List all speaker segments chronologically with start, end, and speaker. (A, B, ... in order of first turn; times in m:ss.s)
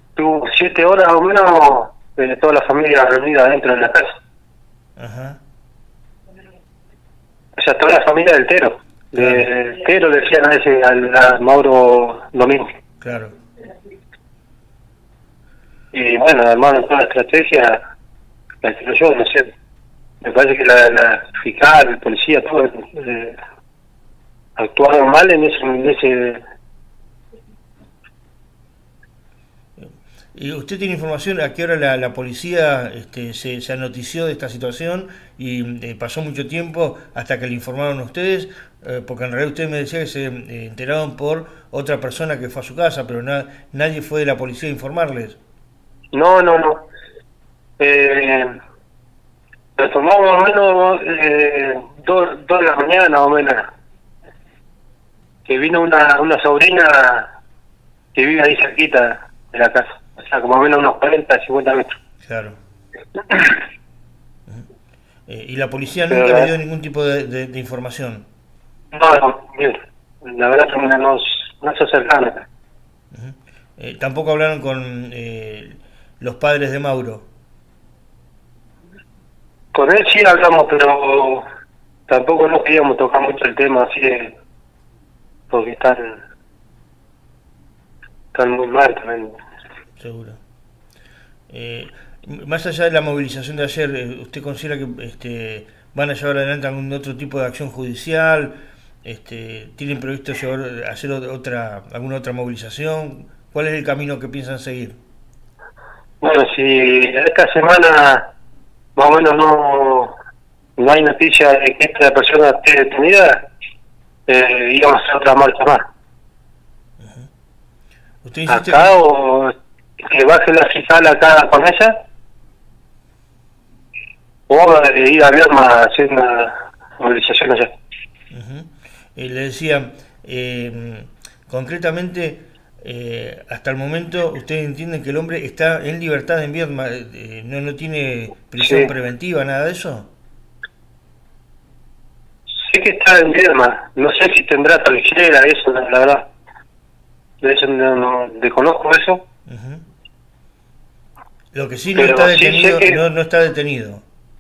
0:00.2-0:04.1 A
0:05.0-0:05.4 B
0:07.6-0:12.6 A
0:09.2-0:09.4 B
0:13.0-0:13.4 B
0:15.9-0:17.8 A
0:18.6-0:19.5 A
0:20.2-0:23.4 A
0:24.6-0:26.4 A
0:29.8-0:45.4 B
0:46.1-0:46.8 A
0:47.8-0:48.5 A
0:49.8-0:53.6 A
0:55.5-0:57.3 A
0:58.2-1:02.0 A
1:02.2-1:02.6 B
1:05.3-1:08.2 B
1:06.1-1:06.5 A
1:08.9-1:12.4 A
1:13.1-1:17.3 B
1:19.8-1:21.4 A
1:22.1-1:24.3 A
1:25.5-1:26.2 A
1:28.3-1:29.4 A
1:30.0-1:30.4 B
1:31.5-1:45.0 B
1:46.2-1:48.3 A
1:49.0-1:50.1 A
1:50.8-1:53.4 A
1:54.3-1:55.8 A
1:57.0-1:57.3 B
1:58.2-1:59.0 B
1:58.5-1:59.5 A
2:00.1-2:01.9 A
2:04.5-2:07.7 A
2:08.3-2:20.1 B
2:18.6-2:18.9 A
2:22.6-2:26.3 A
2:27.4-2:29.2 A
2:29.5-2:29.8 B
2:31.5-2:34.0 B
2:32.0-2:33.0 A